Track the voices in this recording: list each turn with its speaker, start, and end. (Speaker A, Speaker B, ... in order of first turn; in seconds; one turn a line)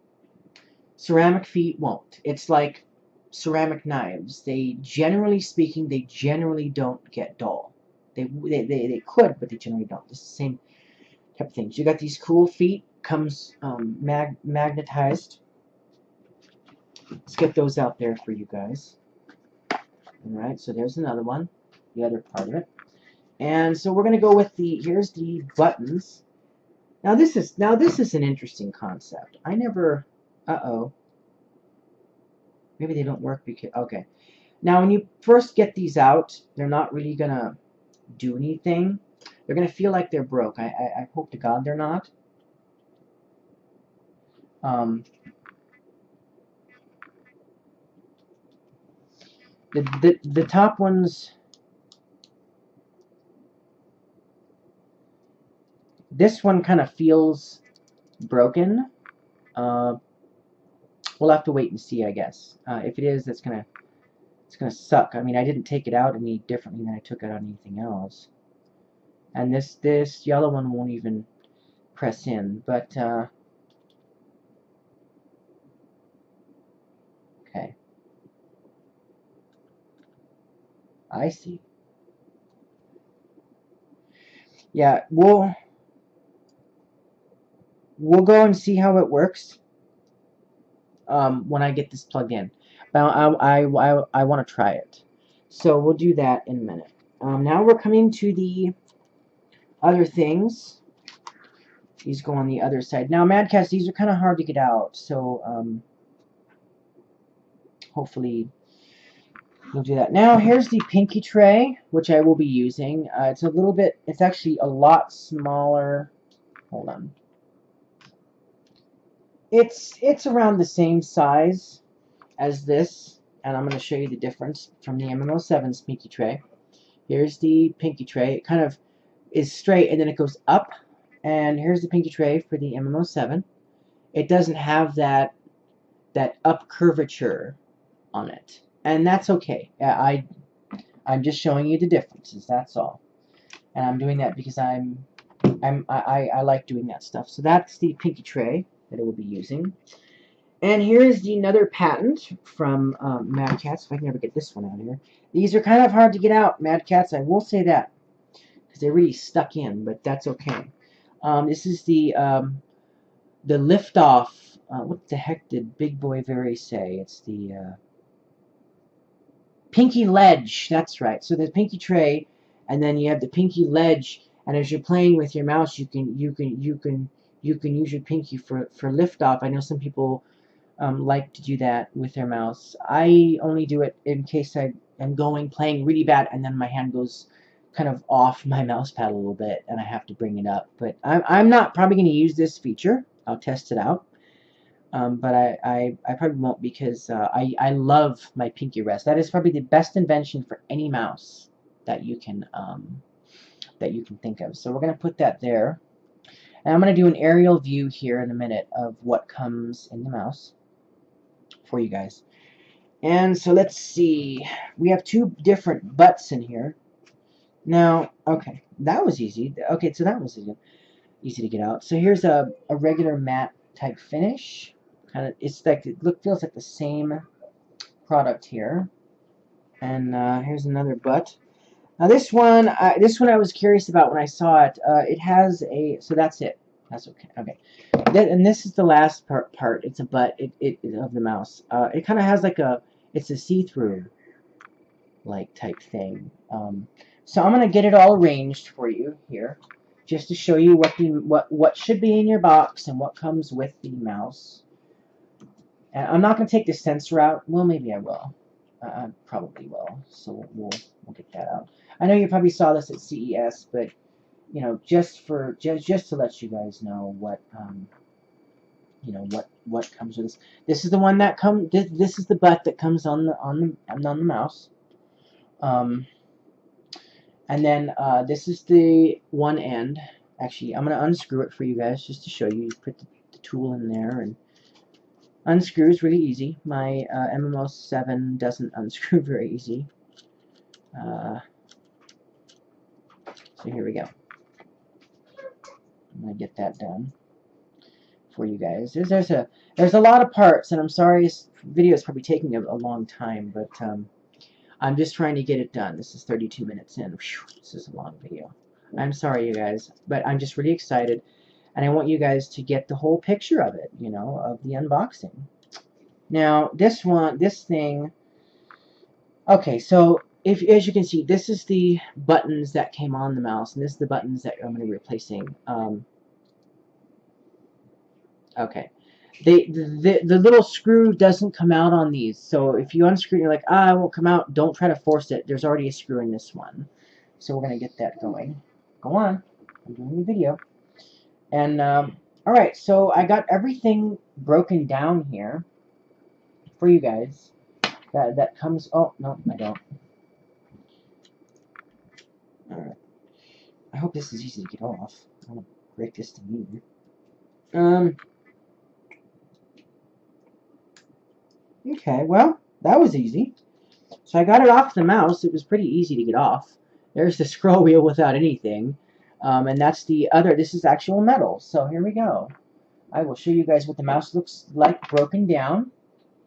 Speaker A: 1.0-10.6
Speaker A: 11.3-15.4
Speaker A: 17.2-19.0
Speaker A: 20.2-22.7
Speaker A: 23.4-26.2
Speaker A: 27.0-30.9
Speaker A: 32.8-34.0
Speaker A: 34.6-37.6
Speaker A: 38.1-42.1
Speaker A: 44.6-45.0
Speaker A: 49.7-51.3
Speaker A: 56.1-57.6
Speaker A: 58.2-58.9
Speaker A: 59.5-60.0
Speaker A: 61.2-63.7
Speaker A: 64.5-68.3
Speaker A: 69.3-71.3
Speaker A: 71.9-73.3
Speaker A: 77.4-77.7
Speaker A: 81.1-81.6
Speaker A: 84.7-85.5
Speaker A: 88.0-89.6
Speaker A: 91.1-98.7
Speaker A: 99.8-100.8
Speaker A: 102.0-105.8
Speaker A: 107.9-108.5
Speaker A: 109.7-116.1
Speaker A: 116.7-117.1
Speaker A: 119.5-121.8
Speaker A: 122.4-126.4
Speaker A: 127.1-128.8
Speaker A: 129.3-133.4
Speaker A: 134.1-135.3
Speaker A: 136.1-137.6
Speaker A: 138.1-140.2
Speaker A: 141.1-143.0
Speaker A: 143.7-149.8
Speaker A: 150.6-157.9
Speaker A: 158.7-162.6
Speaker A: 163.4-167.8
Speaker A: 169.7-180.2
Speaker A: 180.8-194.1
Speaker A: 194.9-203.0
Speaker A: 203.8-205.8
Speaker A: 206.6-210.5
Speaker A: 211.6-212.2
Speaker A: 213.0-216.8
Speaker A: 217.6-220.6
Speaker A: 221.2-227.2
Speaker A: 228.0-228.9
Speaker A: 229.8-231.4
Speaker A: 232.0-244.1
Speaker A: 245.2-254.6
Speaker A: 255.9-263.9
Speaker A: 264.5-267.9
Speaker A: 269.0-274.7
Speaker A: 275.6-276.1
Speaker A: 277.5-284.4
Speaker A: 285.4-289.9
Speaker A: 290.9-291.4
Speaker A: 293.6-294.1
Speaker A: 296.1-297.1
Speaker A: 298.3-304.1
Speaker A: 304.8-315.5
Speaker A: 316.3-318.1
Speaker A: 319.5-326.1
Speaker A: 328.6-340.6
Speaker A: 341.5-345.6
Speaker A: 346.8-347.5
Speaker A: 348.1-349.8
Speaker A: 352.7-353.0
Speaker A: 353.9-356.8
Speaker A: 357.7-358.2
Speaker A: 361.8-363.5
Speaker A: 364.2-372.5
Speaker A: 373.1-375.9